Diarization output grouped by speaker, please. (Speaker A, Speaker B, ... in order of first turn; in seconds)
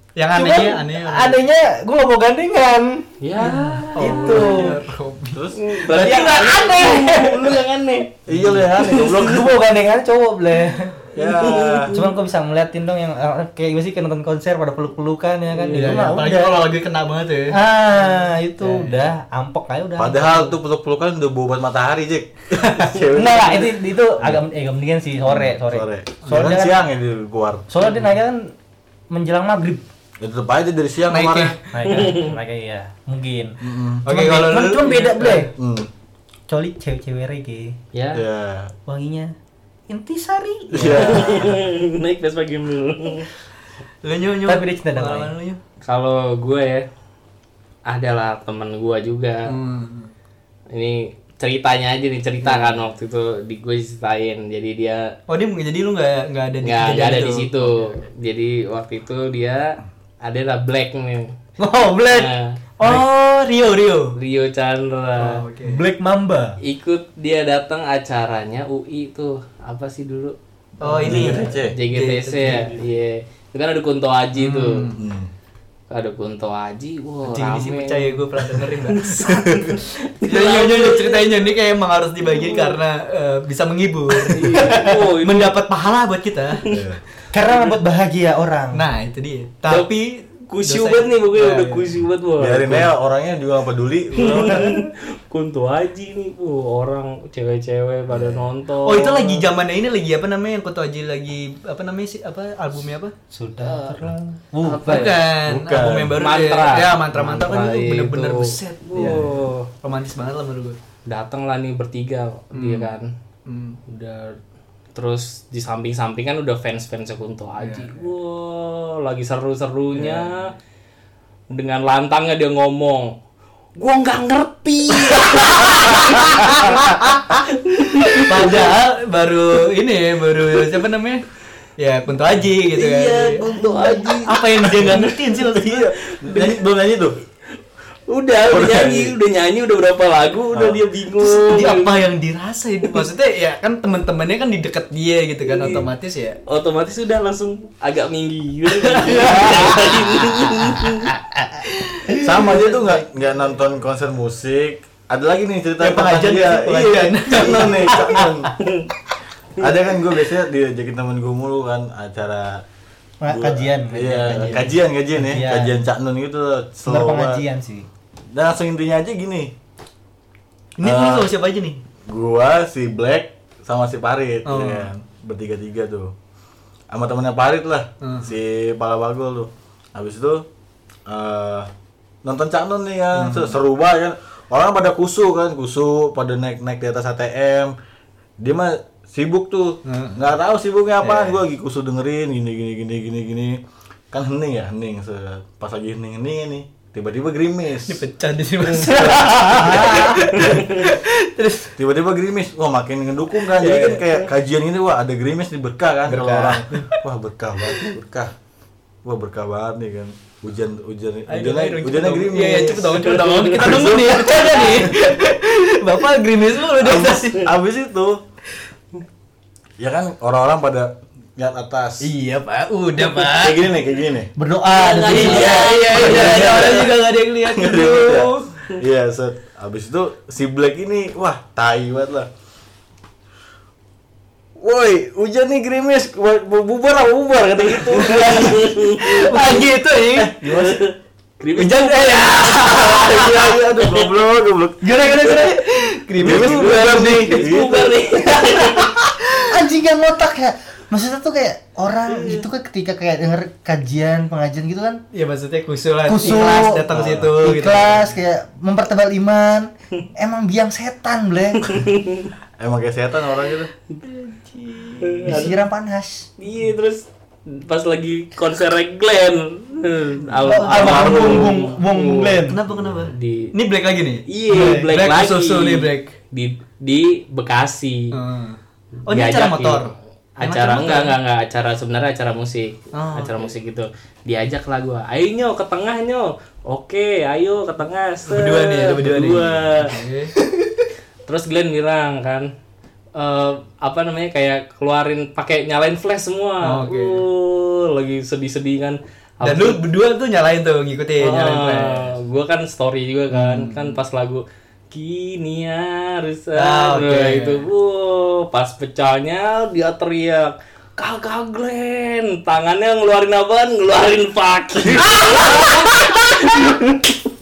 Speaker A: 0.1-1.4, 3.4-6.1, 15.7-19.1, 31.1-31.6, 34.0-35.5, 44.0-45.6, 49.5-50.1, 52.4-52.8, 55.3-58.0, 62.8-64.2, 65.2-65.8, 70.8-72.8, 74.3-75.0, 77.2-79.6, 80.2-86.7, 88.7-92.0, 98.8-103.1, 104.8-110.8, 112.5-112.9, 113.5-113.8, 117.6-118.1, 119.9-120.3, 125.1-131.2, 131.8-135.9, 141.2-146.4, 148.8-150.8, 151.6-152.8, 155.8-158.5, 164.3-164.6, 170.8-171.8, 174.4-174.9, 178.0-178.3, 183.1-183.6, 189.8-190.2, 191.0-191.4, 197.8-201.7, 203.5-204.3, 206.1-207.0, 211.3-217.5, 222.0-223.7, 225.0-228.5, 238.9-240.8, 241.5-243.5, 244.8-247.7, 248.4-249.4, 255.1-258.0, 264.0-265.4, 270.4-271.5, 272.5-276.1, 278.1-281.1, 282.9-283.4, 288.3-290.7, 296.6-297.2, 299.4-302.1, 303.3-304.0, 306.6-307.7, 314.9-316.7
Speaker B: 0.3-3.1, 4.0-4.8, 5.9-7.6, 9.1-11.1, 11.9-16.6, 17.5-20.5, 23.1-26.8, 27.7-28.5, 29.1-29.9, 31.7-35.5, 36.5-37.8, 38.9-39.3, 39.9-41.4, 44.5-45.3, 61.6-62.3, 65.6-66.6, 87.3-88.8, 103.3-105.1, 163.2-165.7, 166.9-167.9, 198.9-200.2, 224.3-226.6, 244.9-245.5, 249.5-255.0, 256.1-261.7, 265.2-266.3, 270.4-272.6, 274.5-274.8
Speaker C: 3.2-4.8, 5.6-8.2, 8.7-9.2, 11.2-12.0, 31.9-32.3, 37.9-38.2, 40.9-43.3, 45.8-46.9, 47.9-49.5, 50.7-55.1, 56.6-61.3, 62.1-62.5, 64.2-65.4, 66.6-70.3, 70.9-74.8, 75.9-81.5, 82.2-82.8, 84.1-85.6, 89.6-89.9, 90.5-92.9, 94.2-99.5, 103.6-104.0, 104.6-105.2, 106.2-109.7, 111.1-113.1, 113.9-114.4, 114.9-120.5, 121.5-123.2, 123.8-126.8, 127.5-128.8, 132.6-136.6, 138.1-142.0, 145.5-145.9, 146.5-151.2, 158.6-158.9, 200.4-200.8, 213.1-213.8, 224.7-226.9, 237.6-239.6, 240.4-244.1, 246.2-248.9, 261.7-262.3, 265.0-265.6, 266.4-272.4, 273.1-273.5, 274.3-278.1, 279.1-290.0, 291.2-292.5, 293.1-299.8, 301.2-317.2
Speaker D: 5.3-5.8, 8.3-9.5, 11.1-12.0, 20.0-24.4, 25.2-27.7, 30.2-31.6, 33.6-34.0, 35.5-35.9, 38.1-38.7, 40.7-41.6, 71.0-71.8, 74.9-75.3, 86.7-87.0, 92.4-94.8, 98.1-98.5, 105.4-106.2, 109.0-109.3, 134.7-135.0, 135.6-137.2, 138.3-139.1, 140.5-140.8, 152.2-158.5, 159.6-162.6, 163.3-167.4, 168.3-169.5, 170.8-171.3, 172.1-176.1, 176.9-180.4, 181.1-181.7, 182.2-187.7, 188.4-193.6, 194.1-198.0, 198.8-200.6, 201.8-208.3, 209.0-215.0, 216.7-218.2, 219.8-222.1, 223.1-224.3, 225.9-232.3, 234.6-238.8, 240.1-240.8, 242.9-245.1, 246.2-248.2, 252.1-252.4, 256.9-257.4, 262.6-263.7, 272.7-273.1